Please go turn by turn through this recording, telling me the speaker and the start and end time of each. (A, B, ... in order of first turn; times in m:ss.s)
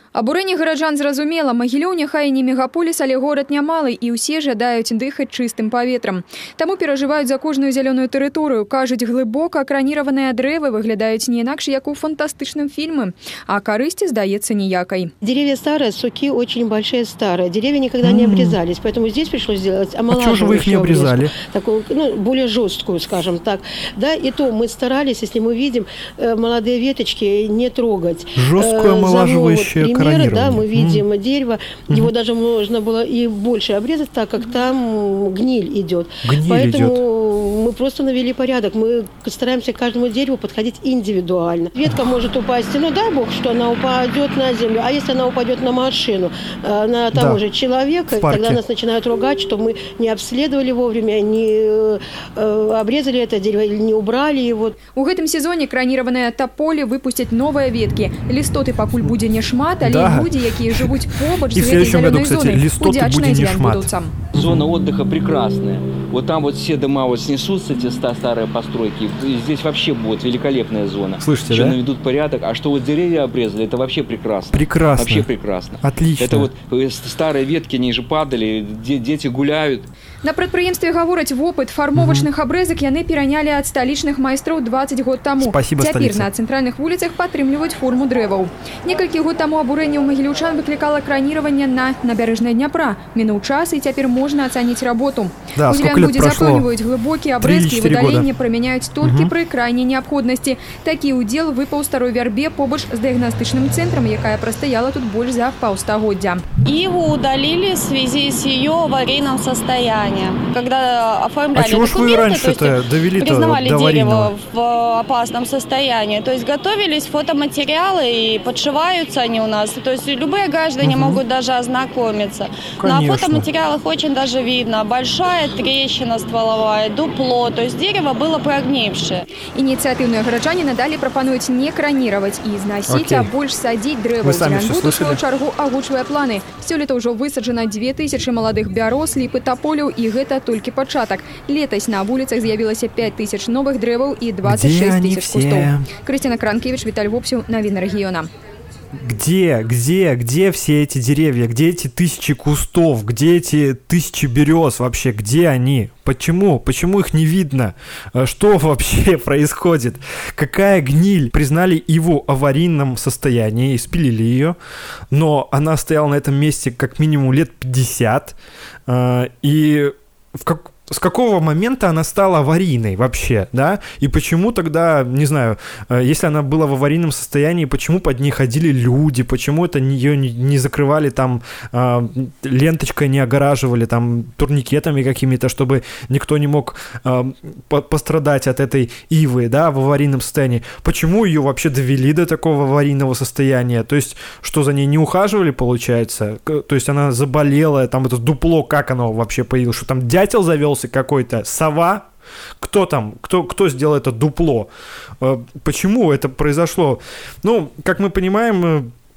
0:00.2-0:15.1 A
0:15.2-0:54.8 B
0:18.0-0:18.6 C
0:20.1-0:21.3 C
0:28.4-0:31.0 C
0:36.2-0:37.0 C
0:47.1-0:47.4 C
0:48.1-0:48.6 C
0:55.0-1:04.2 A
0:59.8-1:00.9 C
1:01.5-1:04.6 C
1:04.3-1:19.9 D
1:11.2-1:11.8 C
1:14.5-1:15.3 C
1:15.8-1:16.5 C
1:20.2-1:46.4 A
1:22.0-1:22.3 C
1:25.4-1:26.3 C
1:35.6-1:36.7 C
1:37.4-1:38.3 C
1:39.0-1:39.3 C
1:46.6-2:09.2 E
1:51.5-1:54.3 C
2:00.8-2:01.2 C
2:02.8-2:03.5 C
2:09.6-2:28.3 A
2:12.9-2:13.3 C
2:14.2-2:15.2 C
2:24.4-2:25.9 C
2:29.0-2:44.6 C
2:45.1-2:48.4 C
2:48.9-3:22.1 C
3:22.6-3:24.7 C
3:25.2-3:28.9 C